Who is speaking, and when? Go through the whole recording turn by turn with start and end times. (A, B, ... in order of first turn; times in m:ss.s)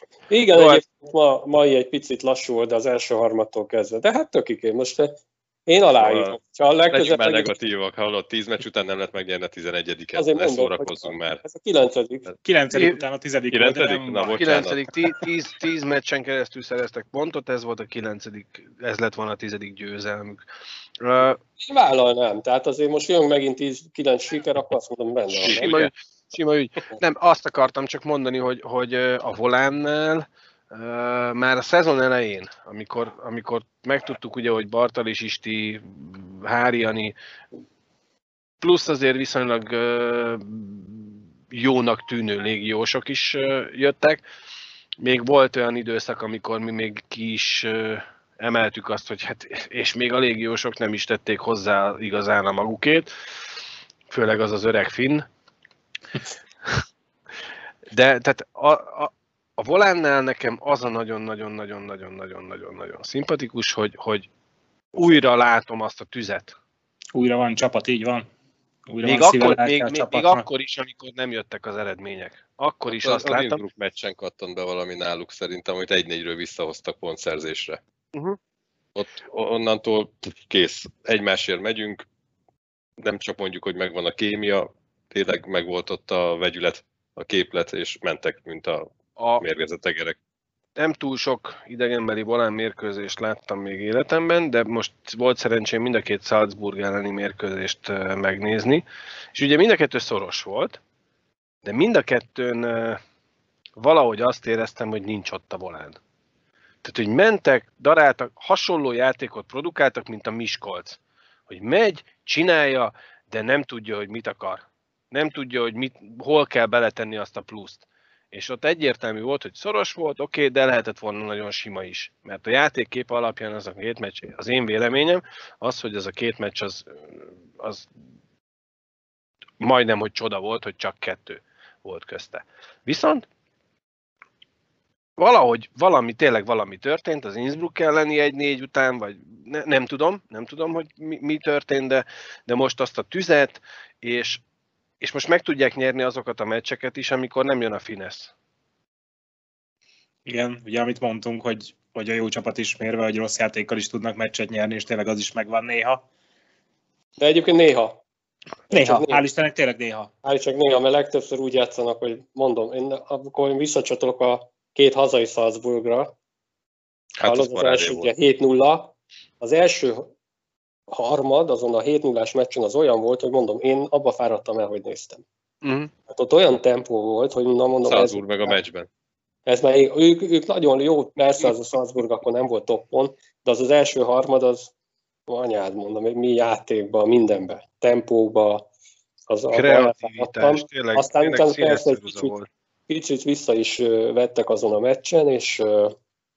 0:00.3-0:07.5 A
0:00.5-0:00.8 B
0:06.0-0:06.4 C
0:06.9-0:11.4 C
0:10.1-0:12.3 A
0:12.4-0:14.5 D
0:12.7-0:13.0 B
0:13.5-0:14.9 C
0:14.4-0:20.4 B
0:21.0-0:21.4 B
0:21.6-0:25.7 A
0:25.4-0:25.9 C
0:25.4-0:37.1 B
0:38.6-0:44.2 B
0:45.0-0:53.1 B
0:54.1-0:55.2 B
0:57.9-1:04.3 B
1:04.9-1:06.6 B
1:07.1-1:08.3 D
1:08.9-1:10.4 D
1:09.0-1:13.6 B
1:12.9-1:17.8 C
1:19.0-1:22.0 C
1:23.0-1:30.2 C
1:29.2-1:29.4 B
1:30.8-1:40.8 B
1:41.6-1:43.0 B
1:43.8-1:46.0 B
1:46.8-2:07.9 B
2:09.6-2:13.2 B
2:15.2-2:24.4 B
2:25.0-2:28.3 B
2:30.3-2:36.0 D
2:37.2-2:38.0 A
2:38.7-2:39.2 A
2:38.7-2:40.1 D
2:40.2-2:46.1 A
2:47.2-2:48.1 C
2:47.2-2:50.1 A
2:50.9-2:55.2 A
2:55.6-2:55.9 B
2:56.1-2:58.6 A
2:57.8-2:58.9 C
2:59.4-3:04.7 A
3:05.3-3:08.7 A
3:09.3-3:12.3 A
3:09.5-3:12.5 B
3:12.9-3:15.9 A